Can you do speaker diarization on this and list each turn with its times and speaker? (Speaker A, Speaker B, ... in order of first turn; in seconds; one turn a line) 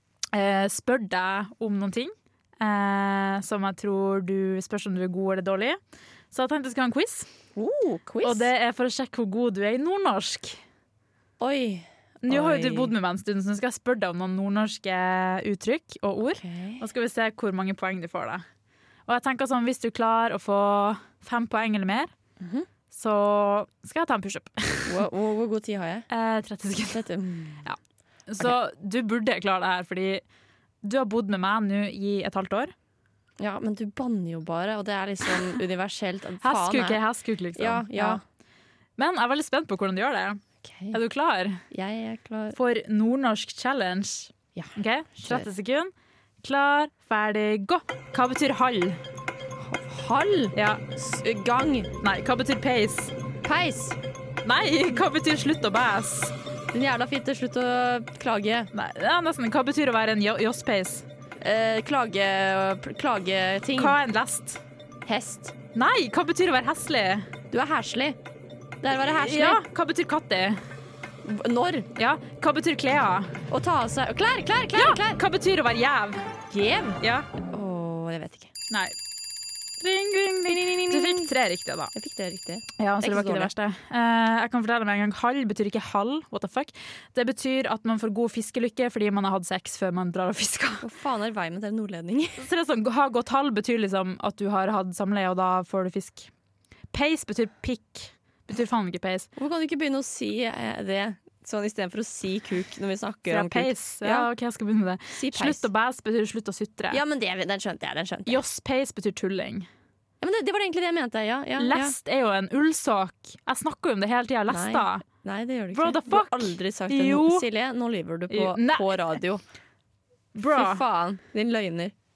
Speaker A: 0.3-5.8
Speaker A: 6.3-7.3
Speaker B: 7.5-8.5
Speaker A: 8.2-10.6
Speaker B: 11.4-12.9
Speaker A: 12.2-18.4
Speaker B: 16.3-16.8
Speaker A: 19.1-22.1
Speaker B: 22.4-22.7
Speaker A: 22.9-25.0
Speaker B: 24.9-26.1
Speaker A: 26.1-27.0
Speaker B: 26.9-27.6
Speaker A: 27.6-30.2
Speaker A: 30.8-32.7
Speaker B: 33.4-37.0
Speaker A: 36.4-38.2
Speaker B: 37.5-38.2
Speaker A: 39.0-41.6
Speaker B: 40.6-41.0
Speaker B: 41.7-42.6
Speaker A: 42.5-45.9
Speaker B: 44.5-45.5
Speaker A: 46.4-49.0
Speaker B: 49.6-51.9
Speaker A: 50.5-50.8
Speaker A: 52.0-53.1
Speaker B: 53.4-54.0
Speaker A: 54.4-56.3
Speaker B: 56.7-58.7
Speaker A: 58.7-61.0
Speaker B: 61.4-64.0
Speaker A: 63.8-64.6
Speaker B: 65.0-65.5
Speaker A: 65.7-67.3
Speaker B: 67.5-68.2
Speaker B: 68.8-69.6
Speaker A: 69.2-70.6
Speaker B: 71.2-71.9
Speaker A: 72.0-73.4
Speaker B: 73.5-75.2
Speaker A: 74.7-76.3
Speaker B: 76.5-77.0
Speaker A: 77.0-77.3
Speaker B: 77.5-78.5
Speaker A: 79.8-81.9
Speaker B: 80.5-81.3
Speaker B: 81.9-83.5
Speaker A: 82.8-90.8
Speaker B: 90.8-92.5
Speaker A: 92.4-96.3
Speaker A: 96.9-99.3
Speaker B: 99.3-104.3
Speaker A: 103.3-107.0
Speaker B: 105.1-105.7
Speaker B: 106.9-108.4
Speaker A: 108.2-109.7
Speaker B: 110.2-111.9
Speaker A: 111.6-115.0
Speaker B: 114.5-119.4
Speaker A: 115.7-117.5
Speaker A: 118.3-118.9
Speaker A: 120.3-120.8
Speaker B: 120.5-121.9